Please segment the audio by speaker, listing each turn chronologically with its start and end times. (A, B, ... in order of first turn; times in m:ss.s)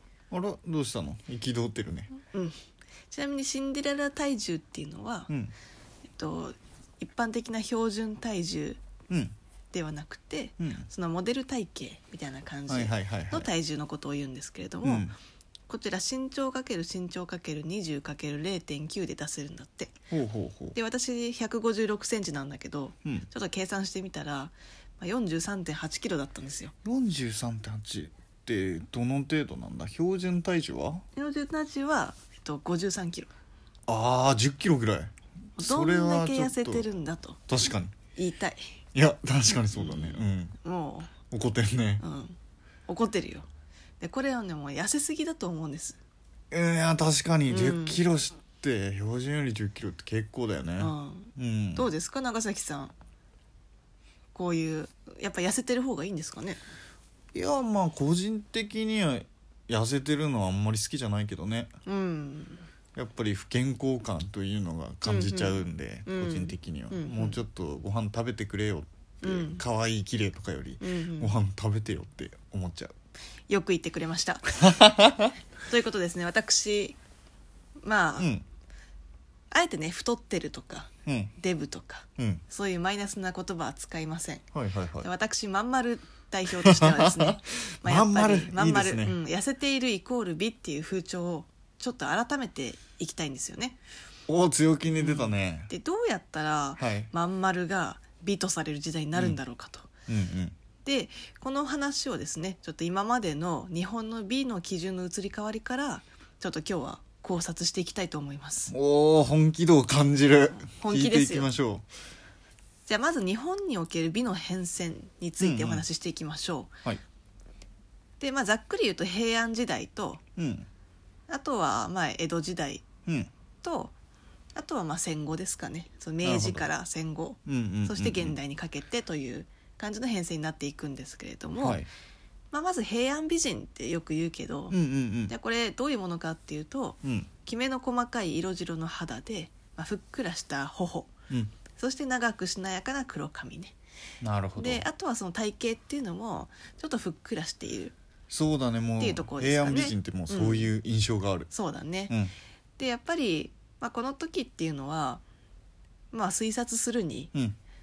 0:00.3-0:02.1 A
0:02.3-0:02.6 B
0:03.1-0:05.3 B
0:05.3-0:05.5 A
0:06.1-0:08.8 B
0:09.1-0:09.4 A
0:09.7-0:15.1 B
0:10.6-0:10.9 A
0:12.7-0:13.5 A
0:14.8-0:15.1 A
0:15.7-0:20.0 B
0:20.1-0:20.8 A
0:20.7-0:26.7 B
0:26.8-0:31.0 A
0:31.2-0:33.3 B
0:33.9-0:36.8 A
0:35.6-0:37.4 B
0:37.5-0:37.9 A
0:38.2-0:38.6 B
0:39.0-0:40.6 A
0:39.7-0:41.1 B
0:41.3-0:42.0 A
0:42.0-0:43.5 B
0:44.0-0:46.0 B
0:46.5-0:51.9 A
0:47.5-0:48.0 B
0:50.8-0:52.9 B
0:54.3-0:56.6 B
0:57.3-1:01.7 A
1:01.9-1:02.6 B
1:03.0-1:12.9 A
1:05.0-1:07.4 B
1:09.2-1:09.6 B
1:10.8-1:11.4 B
1:13.5-1:14.6 B
1:14.6-1:15.3 A
1:15.7-1:17.0 B
1:17.8-1:18.3 B
1:18.2-1:18.4 A
1:19.5-1:24.4 B
1:21.1-1:21.3 A
1:24.5-1:25.1 A
1:25.0-1:33.8 B
1:26.6-1:29.2 A
1:34.3-1:35.7 A
1:35.0-1:39.9 B
1:36.8-1:37.1 A
1:40.1-1:40.6 A
1:40.8-1:48.7 B
1:48.7-1:51.8 A
1:50.6-1:51.5 B
1:52.9-1:56.7 B
1:55.4-1:55.8 A
1:58.2-2:00.2 B
2:00.4-2:00.7 A
2:01.3-2:02.8 B
2:03.6-2:03.9 B
2:04.6-2:11.8 B
2:06.2-2:06.7 A
2:07.5-2:08.4 A
2:11.6-2:11.9 A
2:12.5-2:14.8 B
2:14.7-2:15.3 A
2:15.3-2:21.1 B
2:17.0-2:17.3 A
2:21.8-2:23.7 B
2:24.2-2:24.8 A
2:24.6-2:27.9 B
2:28.3-2:31.5 A
2:29.0-2:30.7 B
2:31.5-2:32.1 B
2:32.8-2:35.2 B
2:36.1-2:37.3 B